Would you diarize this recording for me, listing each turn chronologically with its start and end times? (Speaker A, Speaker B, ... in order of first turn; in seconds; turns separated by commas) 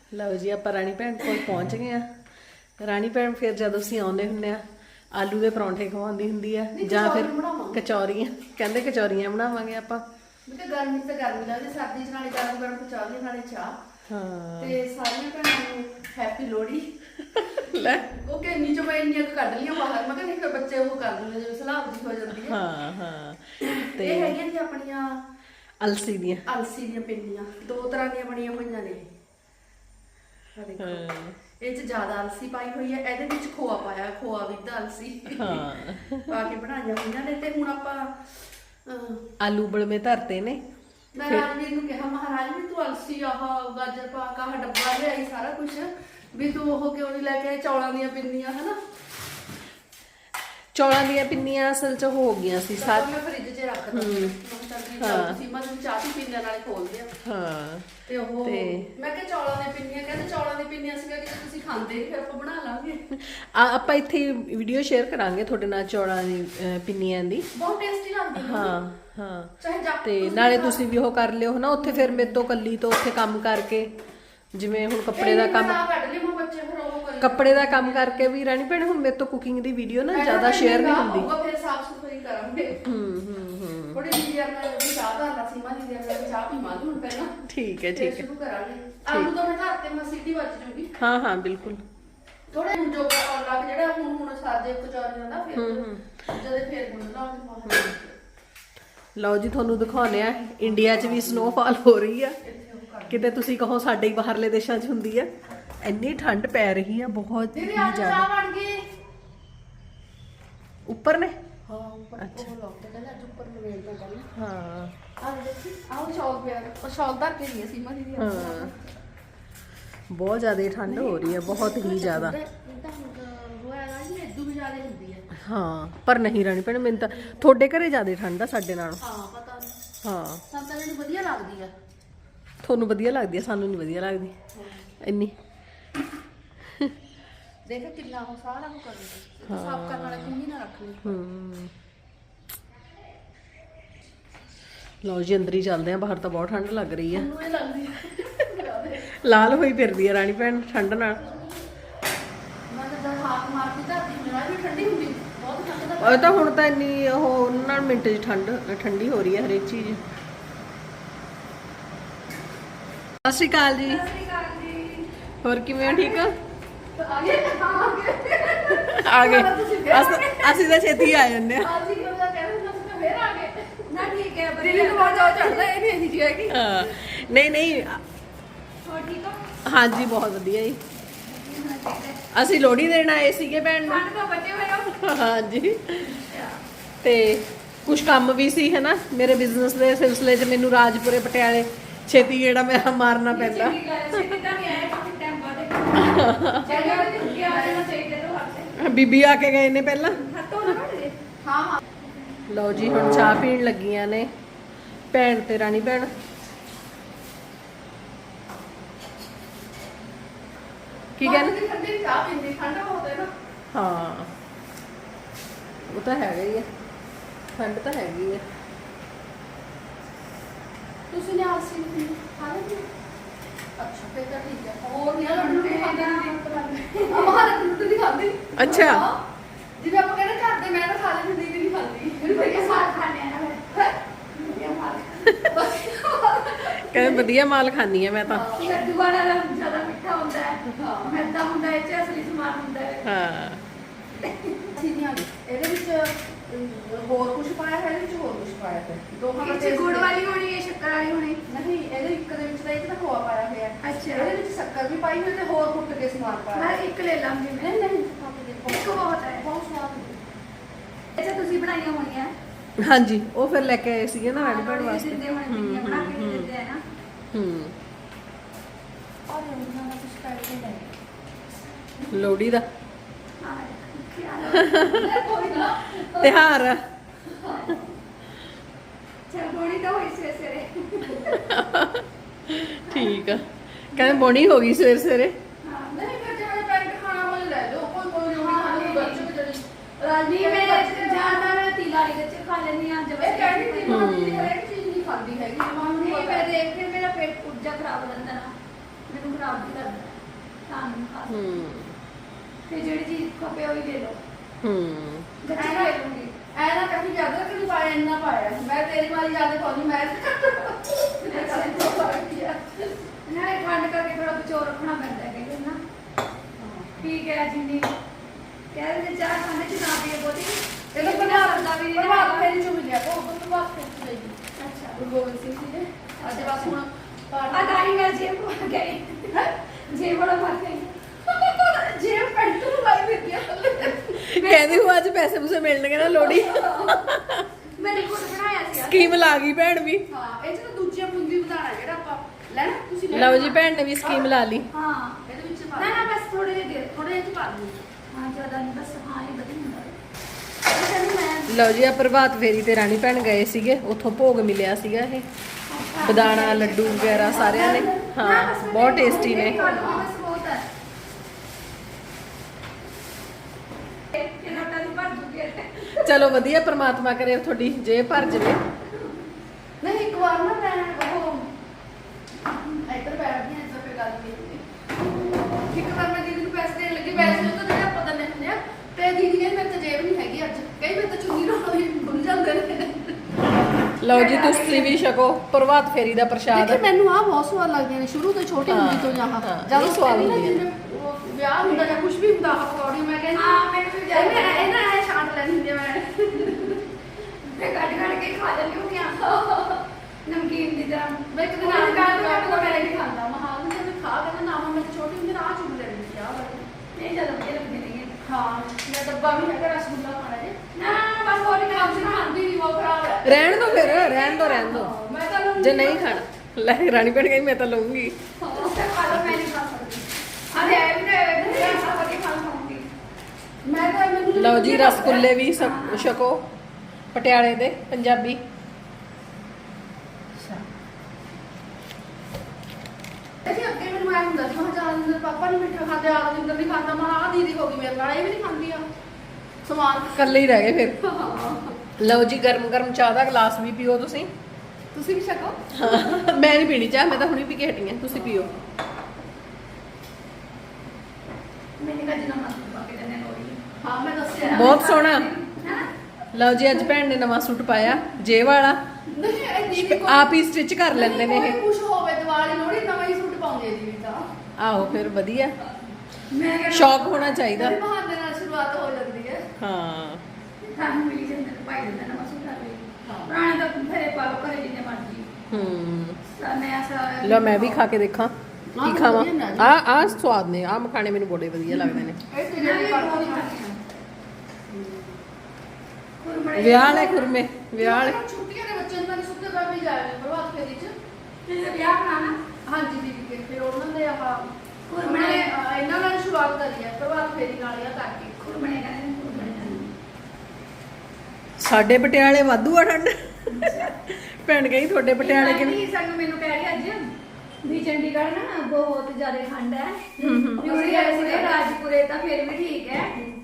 Speaker A: 0.1-2.0, Speaker A: 2.8-4.6, Speaker A: 5.1-10.0, Speaker B: 6.7-7.8, Speaker B: 10.5-13.7, Speaker A: 14.1-14.7, Speaker B: 14.6-16.9, Speaker A: 17.4-18.1, Speaker B: 17.5-22.6, Speaker A: 22.4-24.4, Speaker B: 23.6-25.2, Speaker A: 25.8-26.4, Speaker B: 26.5-29.1, Speaker B: 30.5-31.0, Speaker A: 30.8-31.4, Speaker B: 31.6-38.3, Speaker A: 35.3-36.3, Speaker B: 38.9-39.2, Speaker A: 39.4-40.6, Speaker B: 41.1-48.8, Speaker A: 50.7-53.1, Speaker B: 52.8-57.1, Speaker A: 53.9-54.4, Speaker A: 55.0-55.4, Speaker A: 57.2-57.9, Speaker B: 58.1-63.0, Speaker A: 58.4-58.9, Speaker A: 63.1-67.5, Speaker B: 67.5-68.8, Speaker A: 68.4-69.5, Speaker B: 69.6-70.8, Speaker A: 70.0-73.9, Speaker B: 71.8-72.3, Speaker A: 74.5-75.8, Speaker B: 75.1-78.3, Speaker A: 77.2-81.3, Speaker B: 80.1-82.8, Speaker A: 82.8-84.0, Speaker B: 83.9-87.3, Speaker A: 87.5-88.2, Speaker B: 87.9-90.9, Speaker A: 91.0-91.8, Speaker B: 92.5-98.1, Speaker A: 95.5-96.2, Speaker A: 97.7-97.9, Speaker A: 99.2-102.4, Speaker B: 100.6-101.6, Speaker B: 102.4-103.3, Speaker A: 103.1-105.3, Speaker A: 105.8-108.2, Speaker B: 107.5-108.8, Speaker A: 110.9-111.3, Speaker B: 111.7-114.3, Speaker A: 112.2-112.5, Speaker A: 114.3-114.9, Speaker B: 115.2-118.9, Speaker A: 118.2-118.7, Speaker A: 120.1-122.3, Speaker B: 120.8-125.3, Speaker A: 125.4-129.0, Speaker B: 127.1-127.5, Speaker B: 129.0-129.7, Speaker A: 130.0-130.4, Speaker B: 130.5-131.7, Speaker A: 132.6-134.3, Speaker B: 134.5-134.9, Speaker A: 135.0-135.3, Speaker B: 137.7-141.2, Speaker A: 139.4-140.3, Speaker A: 141.0-141.7, Speaker A: 145.0-147.3, Speaker B: 147.1-149.1, Speaker A: 149.1-151.2, Speaker B: 152.7-156.3, Speaker A: 156.0-160.0, Speaker A: 163.2-164.1, Speaker C: 163.8-165.1, Speaker A: 165.4-166.3, Speaker C: 165.8-166.2, Speaker B: 166.9-170.4, Speaker C: 167.3-168.6, Speaker A: 168.7-171.7, Speaker C: 170.2-170.6, Speaker B: 171.6-173.9, Speaker C: 173.9-175.6, Speaker B: 174.6-177.0, Speaker A: 176.5-178.0, Speaker C: 178.8-179.5, Speaker A: 179.7-180.8, Speaker C: 181.2-182.2, Speaker A: 182.3-184.0, Speaker C: 183.8-185.0, Speaker A: 185.0-186.2, Speaker C: 186.0-186.6, Speaker A: 187.0-194.3, Speaker C: 193.3-198.7, Speaker A: 195.9-196.7, Speaker B: 196.6-197.8, Speaker A: 198.8-200.2, Speaker C: 200.1-201.2, Speaker B: 201.4-201.8, Speaker A: 202.5-204.3, Speaker A: 205.1-206.1, Speaker A: 211.2-211.6, Speaker B: 211.2-213.3, Speaker A: 213.7-214.3, Speaker A: 215.8-216.7, Speaker A: 217.6-218.4, Speaker B: 221.1-222.8, Speaker B: 223.8-229.2, Speaker C: 225.3-227.5, Speaker A: 228.6-229.0, Speaker B: 229.8-232.9, Speaker C: 232.2-235.4, Speaker B: 235.4-237.2, Speaker A: 236.5-238.5, Speaker B: 238.3-238.7, Speaker C: 238.5-243.1, Speaker B: 240.7-241.2, Speaker A: 243.0-243.6, Speaker C: 244.2-244.7, Speaker B: 244.7-250.1, Speaker C: 249.4-251.4, Speaker B: 251.5-256.8, Speaker C: 253.8-254.3, Speaker C: 256.5-257.8, Speaker B: 257.6-260.2, Speaker C: 258.6-259.4, Speaker C: 261.2-262.3, Speaker A: 262.8-266.5, Speaker C: 264.3-266.8, Speaker A: 267.3-267.7, Speaker B: 269.3-270.9, Speaker A: 272.1-272.6, Speaker C: 273.4-276.4, Speaker A: 274.5-275.1, Speaker B: 274.9-276.0, Speaker A: 276.1-276.8, Speaker B: 277.3-277.8, Speaker C: 279.3-281.4, Speaker A: 281.2-285.3, Speaker C: 282.9-283.3, Speaker C: 283.9-284.4, Speaker C: 285.6-286.0, Speaker B: 285.9-291.5, Speaker C: 288.3-289.3, Speaker C: 290.3-294.1, Speaker B: 293.2-296.5, Speaker A: 293.9-294.5, Speaker C: 296.0-298.5, Speaker C: 299.1-300.2, Speaker C: 300.7-301.6, Speaker A: 301.3-301.9, Speaker C: 302.7-304.2, Speaker A: 304.6-305.2, Speaker C: 305.4-306.3, Speaker B: 305.5-306.0, Speaker B: 306.5-313.0, Speaker C: 311.2-312.1, Speaker C: 313.2-315.8, Speaker B: 316.6-317.1, Speaker C: 317.0-317.9, Speaker C: 318.7-322.6, Speaker B: 320.9-324.3, Speaker C: 324.6-325.0, Speaker B: 324.9-327.8, Speaker C: 326.2-326.8, Speaker C: 327.5-330.9, Speaker B: 331.3-334.4, Speaker A: 334.1-337.5, Speaker C: 334.4-334.9, Speaker C: 336.0-337.0, Speaker C: 337.8-339.4, Speaker A: 338.8-340.0, Speaker B: 340.1-344.3, Speaker A: 343.1-344.7, Speaker C: 344.7-345.2, Speaker B: 345.2-346.1, Speaker C: 345.7-346.9, Speaker B: 346.9-347.8, Speaker C: 348.1-349.9, Speaker B: 350.7-351.7, Speaker A: 351.5-355.2, Speaker C: 355.7-360.7, Speaker A: 356.0-359.7, Speaker B: 357.2-358.1, Speaker B: 359.0-360.1, Speaker C: 364.1-366.3, Speaker A: 365.8-368.6, Speaker C: 368.9-369.2, Speaker B: 369.8-371.5, Speaker B: 372.8-383.4, Speaker A: 377.2-377.5, Speaker A: 384.0-386.8, Speaker C: 384.0-385.0, Speaker B: 386.5-393.5, Speaker A: 388.7-390.6, Speaker C: 393.3-394.7, Speaker B: 394.1-396.8, Speaker C: 397.4-399.4, Speaker B: 399.1-399.8, Speaker C: 400.2-403.0, Speaker B: 401.3-406.7, Speaker C: 406.9-408.1, Speaker B: 408.2-410.6, Speaker C: 410.7-412.4, Speaker B: 411.3-413.8, Speaker A: 413.2-414.9, Speaker C: 413.6-414.7, Speaker B: 414.5-416.2, Speaker A: 415.6-418.1, Speaker B: 418.4-418.8, Speaker C: 418.5-422.9, Speaker B: 420.5-422.1, Speaker B: 423.6-425.2, Speaker A: 424.4-426.5, Speaker C: 424.8-426.2, Speaker A: 427.1-428.4, Speaker B: 430.4-430.6, Speaker B: 433.4-438.9, Speaker B: 439.6-440.4, Speaker A: 440.1-441.0, Speaker B: 440.9-441.8, Speaker A: 442.0-444.3, Speaker B: 444.9-446.4, Speaker A: 445.7-448.5, Speaker B: 448.1-448.5, Speaker C: 451.8-453.6, Speaker B: 453.8-454.8, Speaker C: 454.4-455.9, Speaker A: 454.5-455.3, Speaker A: 456.3-458.8, Speaker B: 459.1-460.3, Speaker A: 459.7-461.6, Speaker B: 460.9-464.3, Speaker A: 464.6-465.5, Speaker C: 464.8-465.1, Speaker C: 466.3-467.4, Speaker A: 466.7-467.8, Speaker B: 467.5-469.4, Speaker A: 469.6-470.2, Speaker C: 470.6-475.3, Speaker B: 473.0-473.3, Speaker A: 475.5-476.2, Speaker C: 476.3-477.8, Speaker A: 477.2-482.2, Speaker B: 478.7-480.1, Speaker B: 481.8-483.7, Speaker C: 482.6-483.8, Speaker B: 484.7-485.2, Speaker C: 486.2-487.4, Speaker A: 486.6-488.2, Speaker B: 487.8-490.9, Speaker C: 491.5-492.4, Speaker B: 492.6-498.4, Speaker C: 494.9-495.5, Speaker C: 498.4-499.9, Speaker A: 501.6-505.8, Speaker C: 503.5-504.0, Speaker C: 505.2-507.1, Speaker C: 507.6-513.1, Speaker B: 510.2-511.6, Speaker A: 510.2-510.6